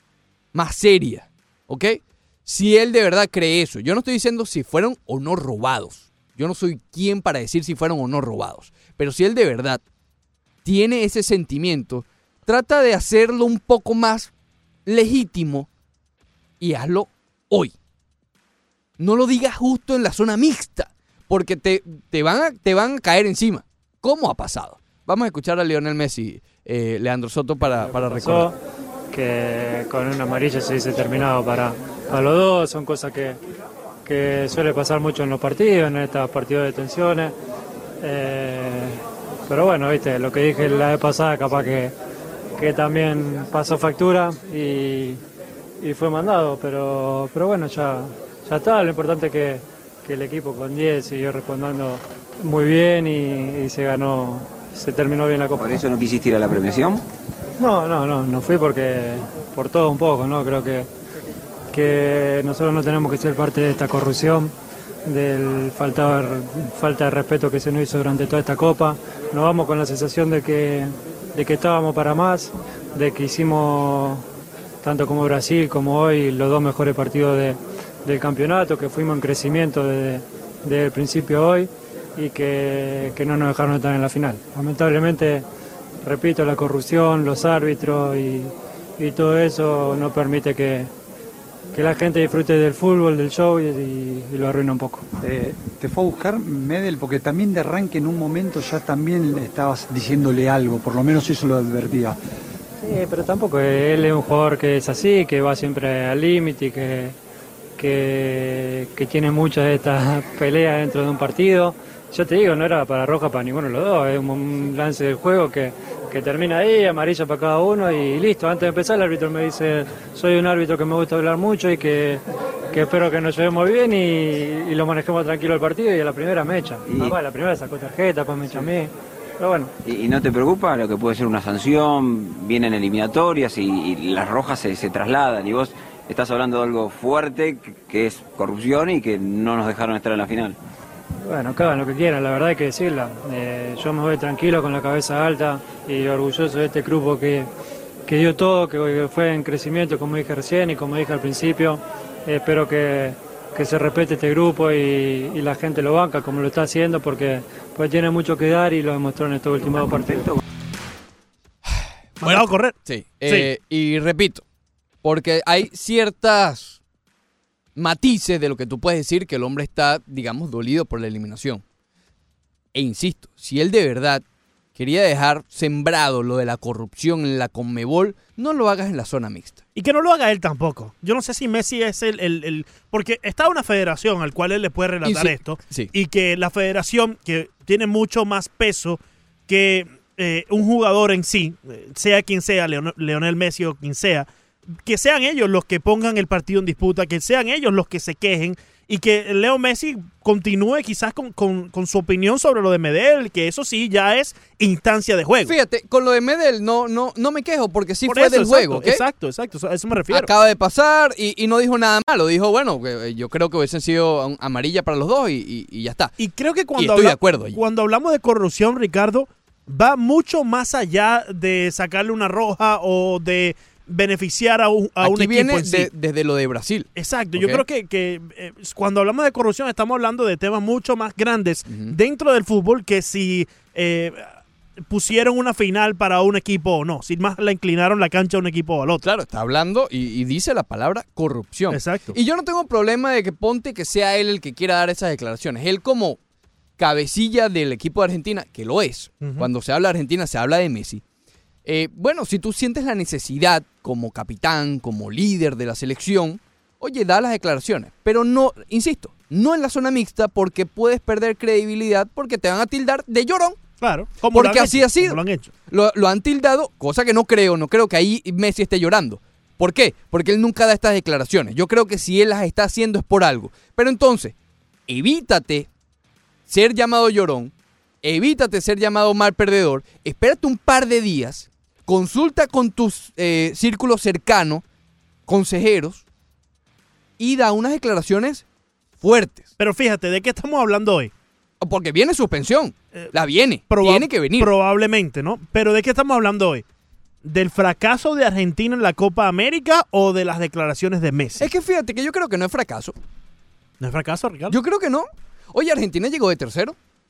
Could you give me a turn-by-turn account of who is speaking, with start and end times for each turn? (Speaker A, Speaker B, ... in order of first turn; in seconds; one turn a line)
Speaker A: 0.5-9.8
Speaker A: 10.6-14.3
Speaker A: 14.8-15.7
Speaker A: 16.6-17.7
Speaker A: 19.0-28.5
Speaker B: 27.9-28.6
Speaker B: 29.1-33.4
Speaker B: 34.0-37.3
Speaker B: 38.0-41.9
Speaker B: 42.6-45.2
Speaker B: 45.8-55.7
Speaker C: 55.5-57.0
Speaker B: 57.6-60.9
Speaker B: 61.7-64.5
Speaker B: 65.0-74.2
Speaker B: 74.8-85.5
Speaker B: 86.0-90.9
Speaker B: 91.7-95.2
Speaker D: 95.2-102.2
Speaker B: 102.8-107.2
Speaker B: 107.8-129.7
Speaker C: 126.9-127.2
Speaker C: 129.8-140.6
Speaker B: 141.2-147.5
Speaker B: 148.1-160.3
Speaker E: 162.2-163.5
Speaker A: 162.2-164.4
Speaker A: 165.0-166.8
Speaker A: 167.8-171.6
Speaker A: 172.7-174.2
Speaker A: 174.8-179.6
Speaker E: 179.8-205.5
Speaker A: 185.0-185.9
Speaker A: 205.4-209.0
Speaker E: 208.1-210.3
Speaker A: 210.1-216.2
Speaker E: 216.2-225.9
Speaker A: 216.8-217.6
Speaker A: 225.0-227.6
Speaker E: 226.9-239.0
Speaker A: 231.7-231.9
Speaker A: 239.0-246.2
Speaker E: 241.7-242.1
Speaker A: 246.8-251.0
Speaker E: 249.2-249.5
Speaker A: 251.7-263.6
Speaker E: 263.8-265.5
Speaker A: 264.2-274.3
Speaker A: 274.9-275.7
Speaker A: 276.5-277.5
Speaker A: 278.0-284.6
Speaker A: 285.3-286.0
Speaker A: 287.2-288.4
Speaker A: 289.0-289.5
Speaker E: 289.6-291.1
Speaker A: 291.6-294.5
Speaker E: 293.7-296.6
Speaker E: 297.2-301.5
Speaker A: 301.4-302.9
Speaker E: 303.8-304.5
Speaker A: 304.5-306.8